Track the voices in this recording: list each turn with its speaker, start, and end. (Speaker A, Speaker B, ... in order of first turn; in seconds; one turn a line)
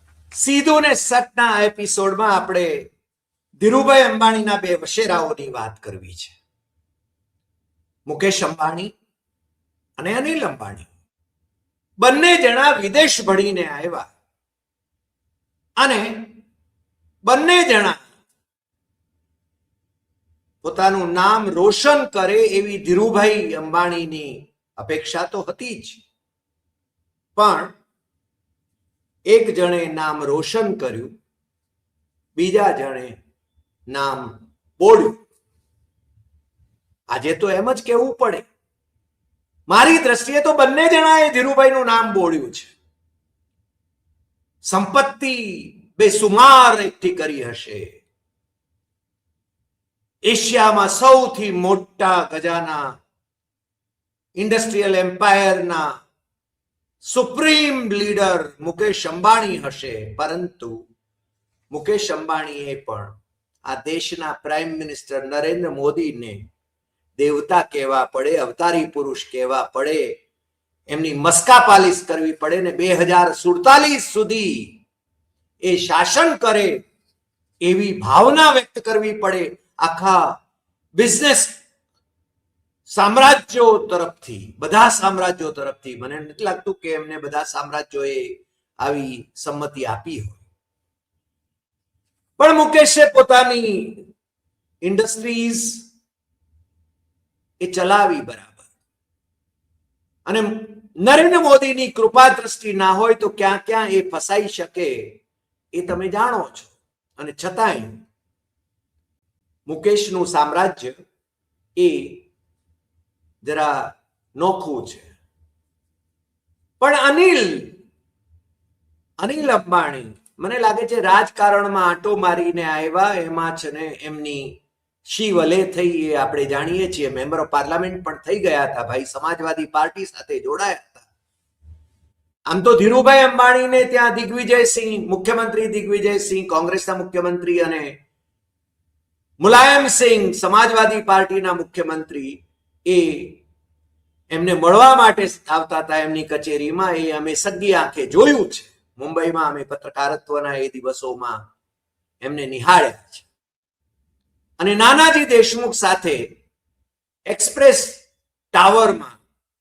Speaker A: 0.3-2.8
Speaker A: 3.6-6.3
Speaker A: 8.1-8.9
Speaker A: 10.0-10.9
Speaker A: 12.0-14.1
Speaker A: 15.8-16.3
Speaker A: 17.2-18.0
Speaker A: 20.6-26.0
Speaker A: 27.4-27.7
Speaker A: 29.3-31.1
Speaker A: 32.4-33.2
Speaker A: 33.9-35.2
Speaker A: 37.1-38.5
Speaker A: 39.7-42.7
Speaker A: 44.6-48.0
Speaker A: 50.2-52.9
Speaker A: 54.4-55.9
Speaker A: 57.0-60.7
Speaker A: 61.7-63.1
Speaker A: 63.7-66.4
Speaker A: 67.2-70.1
Speaker A: 70.9-74.7
Speaker A: 75.6-76.8
Speaker A: 77.6-80.3
Speaker A: 81.0-81.6
Speaker A: 82.9-90.4
Speaker A: 92.4-94.0
Speaker A: 94.8-95.9
Speaker A: 97.6-98.7
Speaker A: 100.2-105.2
Speaker A: 105.7-108.0
Speaker A: 109.7-111.0
Speaker A: 111.8-112.2
Speaker A: 113.4-115.1
Speaker A: 116.8-117.8
Speaker A: 119.2-131.1
Speaker A: 132.5-138.0
Speaker A: 139.4-143.4
Speaker A: 144.3-151.4
Speaker A: 152.2-153.3
Speaker A: 154.6-156.2
Speaker A: 157.3-158.0
Speaker A: 158.5-159.2